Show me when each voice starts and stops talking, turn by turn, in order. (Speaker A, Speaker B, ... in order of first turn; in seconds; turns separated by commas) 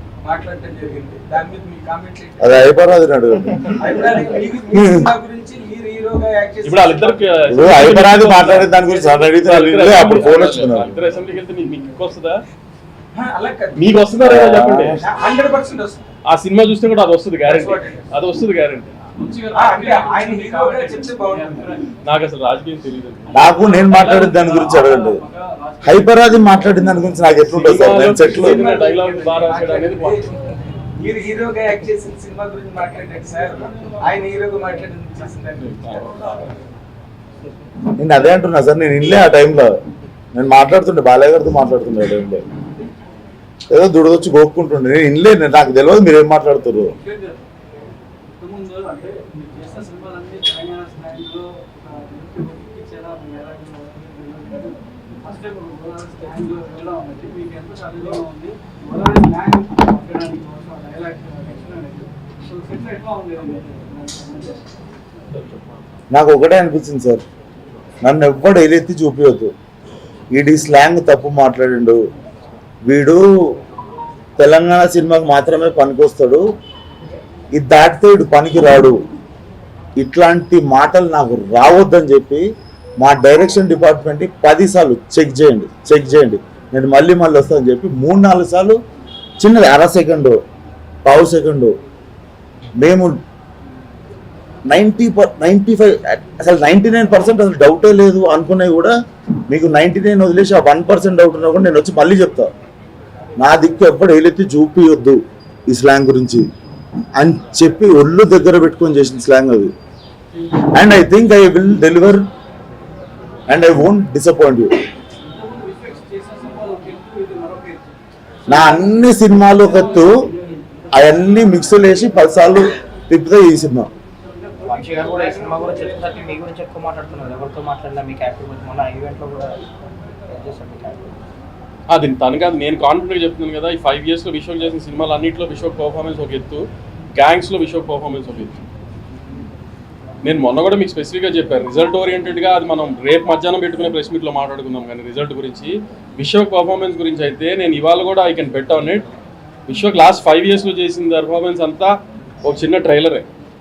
Speaker A: 0.2-2.7, Speaker B: 2.4-5.1, Speaker A: 3.8-7.8, Speaker C: 6.7-8.8, Speaker B: 7.5-11.0, Speaker A: 8.5-9.3, Speaker C: 9.4-12.4, Speaker A: 13.1-13.9, Speaker C: 13.8-15.0, Speaker B: 14.2-15.0, Speaker A: 15.0-16.0, Speaker C: 16.3-19.0, Speaker A: 17.4-18.1, Speaker D: 19.1-21.9, Speaker A: 19.5-21.9, Speaker C: 22.0-25.0, Speaker B: 23.3-25.2, Speaker D: 23.6-25.9, Speaker B: 25.8-28.6, Speaker C: 27.4-30.2, Speaker A: 28.0-30.3, Speaker A: 30.9-36.5, Speaker C: 35.6-36.1, Speaker B: 38.0-39.7, Speaker B: 40.3-42.4, Speaker B: 43.7-46.9, Speaker D: 46.9-47.4, Speaker D: 48.4-64.6, Speaker B: 66.1-67.2, Speaker B: 68.0-69.5, Speaker B: 70.3-72.0, Speaker B: 72.9-73.3, Speaker B: 74.4-76.4, Speaker B: 77.5-79.0, Speaker B: 80.0-82.5, Speaker B: 83.0-88.8, Speaker B: 89.4-90.4, Speaker B: 91.0-91.8, Speaker B: 92.8-93.2, Speaker B: 94.7-99.0, Speaker B: 99.5-102.5, Speaker B: 103.4-106.5, Speaker B: 107.2-109.7, Speaker B: 110.6-112.2, Speaker B: 113.5-114.8, Speaker D: 115.2-117.9, Speaker D: 118.5-119.0, Speaker B: 118.5-120.3, Speaker D: 119.5-120.3, Speaker B: 120.9-123.9, Speaker E: 124.7-129.6, Speaker E: 130.3-131.2, Speaker C: 131.9-136.7, Speaker C: 137.2-138.6, Speaker C: 140.2-149.1, Speaker C: 149.7-153.3